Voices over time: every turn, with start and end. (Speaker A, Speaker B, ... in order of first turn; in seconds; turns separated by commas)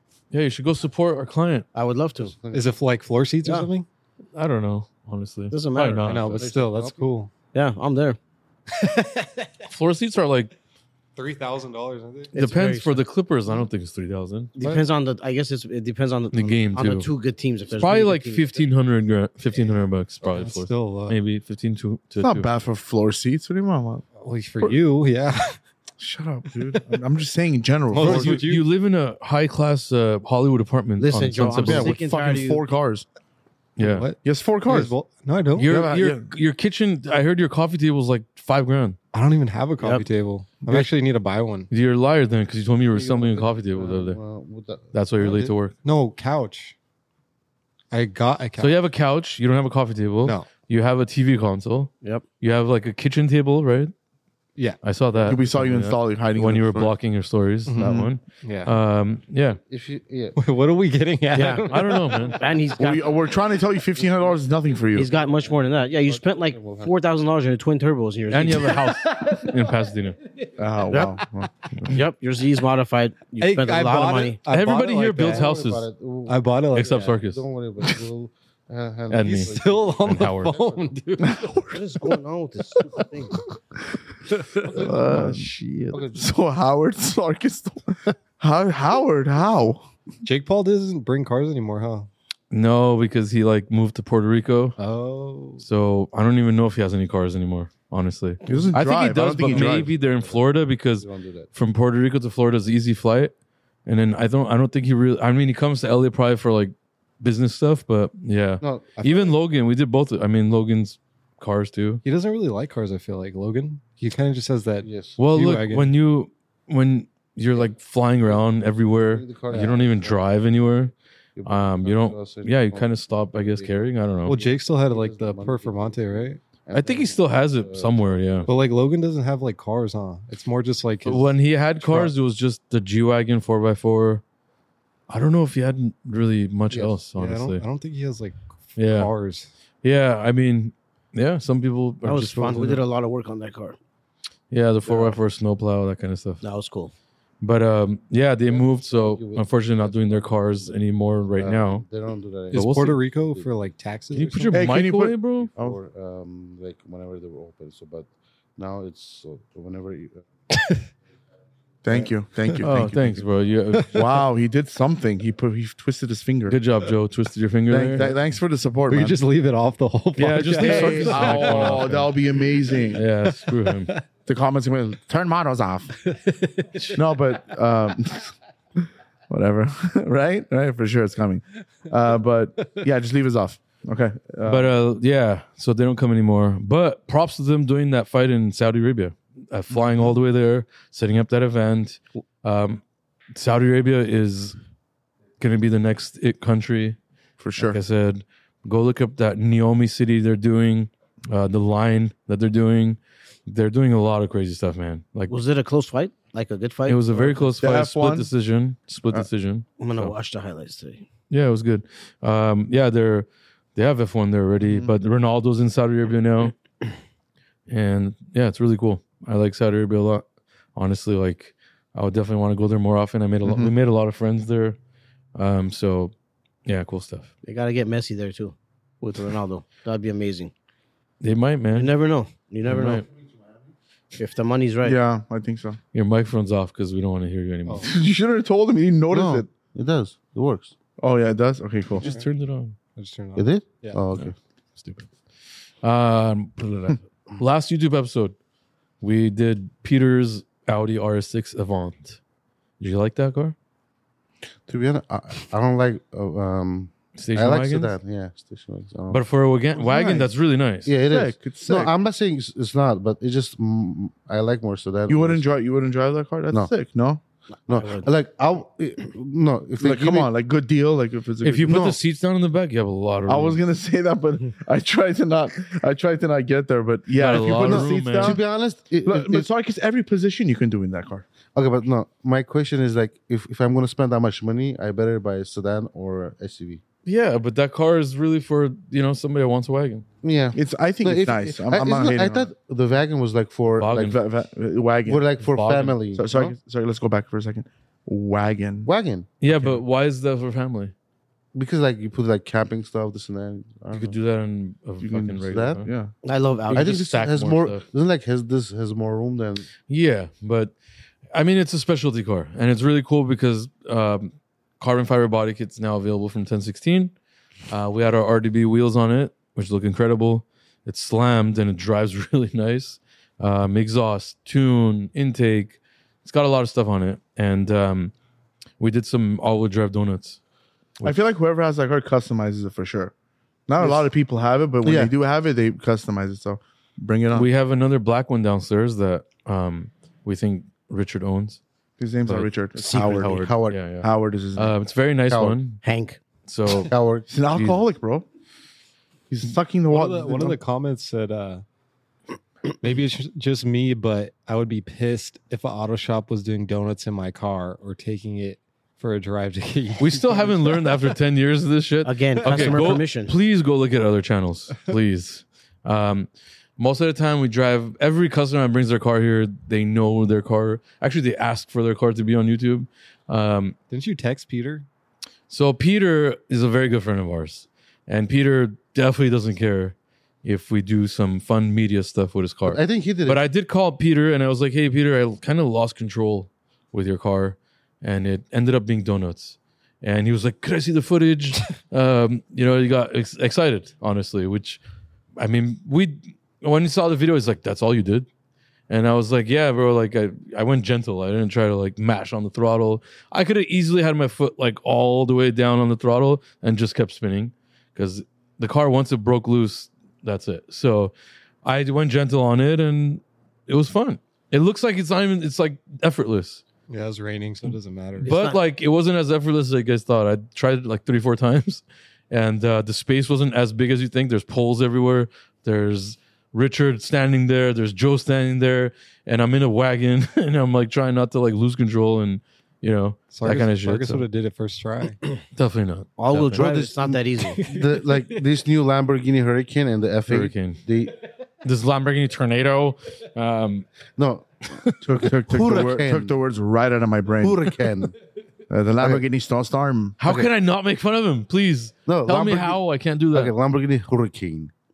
Speaker A: 0.3-1.6, Speaker B: 1.7-2.3, Speaker C: 2.2-2.8, Speaker D: 2.5-3.9, Speaker B: 3.4-3.7, Speaker A: 4.3-6.5, Speaker B: 5.5-6.1, Speaker D: 6.0-7.3, Speaker C: 6.4-7.1, Speaker B: 7.5-8.2, Speaker D: 8.8-9.3, Speaker A: 9.7-10.5, Speaker D: 11.2-12.3, Speaker B: 12.3-13.0, Speaker A: 12.3-14.5, Speaker B: 14.6-18.6, Speaker D: 14.6-14.8, Speaker A: 16.3-17.1, Speaker A: 17.8-22.5, Speaker D: 20.2-21.2, Speaker E: 22.2-24.1, Speaker D: 24.2-25.6, Speaker E: 26.0-28.4, Speaker D: 27.9-28.7, Speaker A: 28.0-31.9, Speaker B: 31.0-32.6, Speaker E: 31.6-33.0, Speaker A: 33.8-34.1, Speaker D: 33.8-35.7, Speaker E: 34.2-34.9, Speaker A: 35.6-39.0, Speaker E: 35.6-36.2, Speaker D: 39.1-41.7, Speaker B: 39.8-40.0, Speaker E: 40.6-40.9, Speaker A: 41.7-44.2, Speaker C: 42.9-45.5, Speaker A: 44.9-45.7, Speaker D: 45.8-46.7, Speaker D: 47.9-48.8, Speaker A: 48.6-53.9, Speaker D: 50.2-50.5, Speaker D: 54.5-55.4, Speaker A: 54.8-59.6, Speaker E: 55.2-57.0, Speaker D: 57.7-58.7, Speaker E: 57.8-58.1, Speaker C: 59.7-60.4, Speaker D: 60.4-62.4, Speaker B: 61.3-61.7, Speaker A: 61.5-62.4, Speaker B: 62.4-63.1, Speaker E: 62.8-65.1, Speaker B: 64.9-68.9, Speaker C: 65.1-66.9, Speaker A: 68.3-70.2, Speaker E: 70.6-71.5, Speaker B: 70.9-71.2, Speaker B: 71.9-74.4, Speaker D: 73.4-75.5, Speaker A: 74.5-75.9, Speaker C: 75.2-80.9, Speaker D: 76.3-77.2, Speaker A: 76.7-77.4, Speaker A: 79.1-80.6, Speaker D: 79.2-81.4, Speaker E: 81.2-81.8, Speaker B: 81.7-83.4, Speaker E: 84.6-85.5, Speaker A: 84.6-86.0, Speaker C: 85.9-86.3, Speaker E: 86.2-89.9, Speaker D: 90.2-92.1, Speaker A: 92.5-94.8, Speaker D: 94.8-95.6, Speaker A: 95.6-103.3, Speaker E: 98.5-99.9, Speaker C: 99.4-101.5, Speaker A: 103.8-112.0, Speaker C: 108.6-109.2, Speaker D: 109.0-109.3, Speaker D: 112.0-115.9, Speaker C: 114.8-115.2, Speaker A: 115.2-120.9, Speaker C: 118.3-120.2, Speaker C: 121.3-128.5, Speaker A: 121.4-124.4, Speaker D: 124.2-126.4, Speaker A: 126.7-128.5, Speaker D: 128.4-132.1, Speaker A: 131.0-134.2, Speaker A: 135.1-137.6, Speaker D: 137.1-139.5, Speaker A: 138.8-139.1, Speaker A: 139.8-142.8, Speaker B: 142.0-143.8, Speaker A: 144.5-146.4, Speaker B: 146.4-146.9, Speaker A: 147.4-151.8, Speaker C: 148.4-153.5, Speaker D: 152.5-154.6, Speaker A: 152.5-153.0, Speaker A: 154.1-155.5, Speaker E: 154.5-155.8, Speaker C: 155.5-160.2, Speaker D: 160.5-160.8, Speaker E: 161.8-163.2, Speaker A: 162.6-164.0, Speaker E: 163.9-166.6, Speaker A: 166.5-168.1, Speaker E: 167.7-169.2, Speaker D: 168.9-174.0, Speaker A: 170.2-172.2, Speaker E: 170.6-173.0, Speaker A: 172.9-173.9, Speaker E: 174.2-175.9, Speaker D: 176.1-176.9, Speaker E: 176.9-178.3, Speaker E: 179.3-184.7, Speaker A: 184.4-192.8, Speaker A: 193.3-194.6, Speaker A: 195.4-197.0, Speaker E: 197.4-197.8, Speaker A: 197.6-205.3, Speaker B: 205.3-207.5, Speaker A: 206.8-210.1, Speaker E: 207.6-208.3, Speaker B: 209.8-211.1, Speaker A: 211.3-216.5, Speaker E: 214.6-214.9, Speaker A: 217.7-220.2, Speaker A: 220.7-224.8, Speaker E: 223.4-223.7, Speaker A: 225.3-226.1, Speaker A: 226.7-227.3, Speaker B: 227.4-230.5, Speaker A: 231.2-231.9, Speaker B: 231.7-233.0, Speaker A: 232.6-233.1, Speaker B: 234.2-235.0, Speaker E: 234.8-235.8, Speaker A: 235.9-237.9, Speaker E: 237.8-239.5, Speaker C: 239.1-240.7, Speaker E: 241.0-242.1, Speaker A: 242.0-242.8, Speaker D: 242.9-244.0, Speaker C: 243.3-244.3, Speaker A: 244.2-245.1, Speaker A: 245.8-248.3, Speaker A: 249.0-252.2, Speaker A: 252.8-253.5, Speaker C: 254.7-259.2, Speaker A: 257.2-257.9, Speaker A: 259.1-260.9, Speaker E: 259.7-260.3, Speaker C: 260.9-265.5, Speaker E: 261.0-261.9, Speaker E: 265.1-267.2, Speaker C: 267.7-270.3, Speaker B: 267.7-268.1, Speaker E: 269.8-271.9, Speaker A: 271.4-273.6, Speaker C: 271.6-272.0, Speaker E: 273.3-278.4, Speaker A: 277.1-278.4, Speaker C: 277.6-279.5, Speaker E: 279.0-281.2, Speaker C: 281.5-286.8, Speaker A: 287.1-290.1, Speaker C: 290.2-294.2, Speaker E: 290.5-292.5, Speaker A: 293.8-294.2, Speaker E: 293.9-295.4, Speaker C: 295.0-296.5, Speaker A: 295.4-296.0, Speaker E: 296.1-298.9, Speaker C: 298.8-299.3, Speaker A: 299.4-300.9, Speaker C: 301.5-304.1, Speaker A: 303.9-305.9, Speaker E: 305.0-306.1, Speaker C: 305.4-305.8, Speaker B: 306.2-307.0, Speaker A: 306.7-307.8, Speaker C: 306.7-309.7, Speaker A: 309.9-310.7, Speaker A: 311.3-317.1, Speaker A: 317.7-328.1, Speaker A: 328.8-330.4, Speaker E: 331.0-333.1, Speaker E: 333.7-337.5, Speaker C: 334.8-335.1, Speaker A: 337.3-341.6, Speaker E: 342.0-344.7, Speaker A: 342.2-342.5, Speaker B: 342.8-343.5, Speaker C: 342.9-343.8, Speaker A: 343.2-345.8, Speaker C: 345.3-345.6, Speaker B: 345.8-346.2, Speaker A: 346.4-346.9, Speaker C: 346.9-347.3, Speaker E: 347.3-348.2, Speaker A: 347.5-347.8, Speaker E: 349.3-350.6, Speaker D: 349.9-351.6, Speaker D: 352.8-361.0, Speaker A: 360.0-373.8, Speaker B: 362.0-363.3, Speaker D: 362.4-362.9, Speaker D: 373.9-374.9, Speaker A: 375.5-394.8, Speaker C: 382.7-383.4, Speaker A: 395.4-398.3, Speaker A: 398.9-411.1, Speaker A: 411.6-416.6, Speaker D: 416.9-418.3, Speaker A: 417.6-434.2, Speaker B: 418.2-418.6, Speaker D: 433.3-435.2, Speaker A: 435.5-436.7, Speaker B: 436.2-437.6, Speaker C: 436.5-441.2, Speaker D: 437.6-438.2, Speaker A: 440.3-440.8, Speaker A: 441.6-443.9, Speaker C: 444.2-446.3, Speaker E: 445.0-447.7, Speaker C: 447.4-448.1, Speaker E: 448.7-450.2, Speaker C: 449.0-449.2, Speaker A: 450.2-453.5, Speaker C: 450.2-450.5, Speaker C: 452.1-454.7